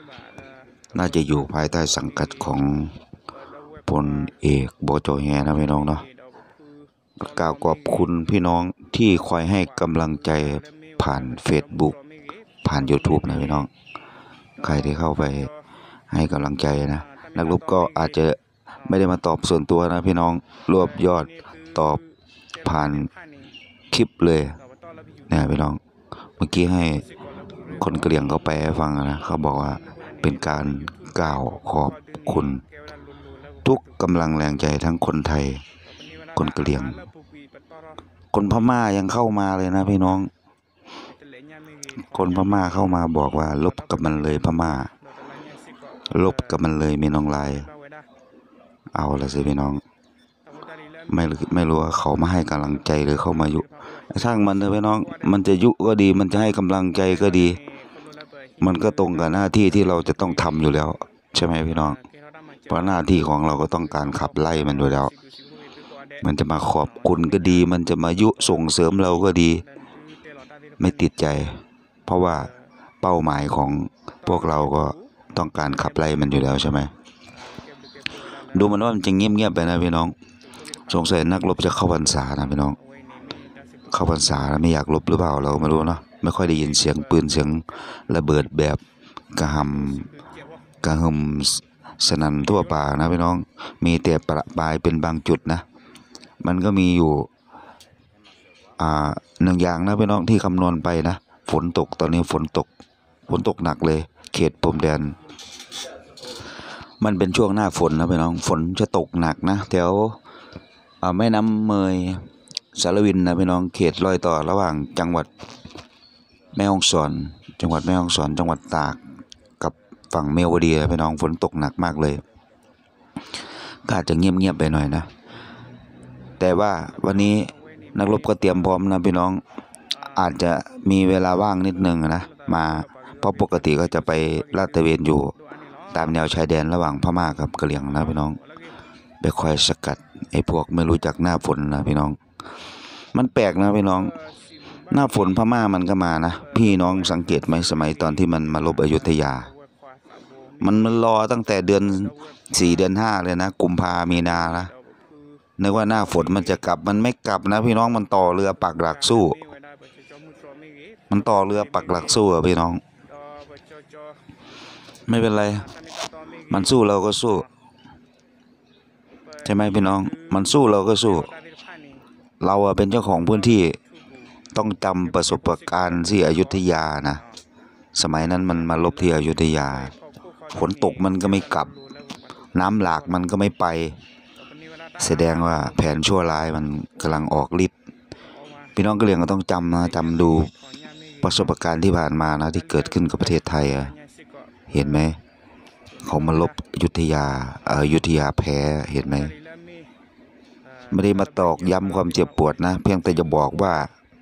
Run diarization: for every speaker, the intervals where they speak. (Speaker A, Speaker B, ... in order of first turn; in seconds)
Speaker A: 0.9-3.0, 3.9-6.1, 7.2-12.0, 12.6-13.7, 14.6-15.5, 16.1-22.0, 22.6-23.1, 23.9-24.6, 25.3-25.8, 26.4-27.1, 27.7-32.6, 33.6-35.6, 36.4-37.0, 38.3-40.3, 42.1-44.9, 46.1-47.7, 49.0-49.8, 51.1-57.6, 58.6-62.0, 62.7-65.1, 66.2-69.7, 70.8-72.5, 73.0-76.9, 78.5-80.2, 80.9-82.8, 83.9-88.8, 89.3-90.1, 90.8-95.7, 96.4-97.3, 98.8-102.7, 103.3-105.2, 107.0-110.2, 111.0-115.3, 116.5-119.0, 119.6-122.2, 123.8-125.1, 126.4-129.4, 130.1-135.3, 135.9-138.4, 139.2-142.2, 143.1-144.2, 144.9-149.5, 150.6-154.7, 155.6-159.4, 161.1-162.8, 165.1-165.7, 166.5-167.5, 169.4-171.3, 172.4-173.8, 174.5-177.2, 177.9-179.9, 180.5-181.8, 182.5-184.0, 185.0-187.7, 188.8-190.5, 191.2-193.9, 194.7-195.2, 196.0-199.3, 200.9-203.9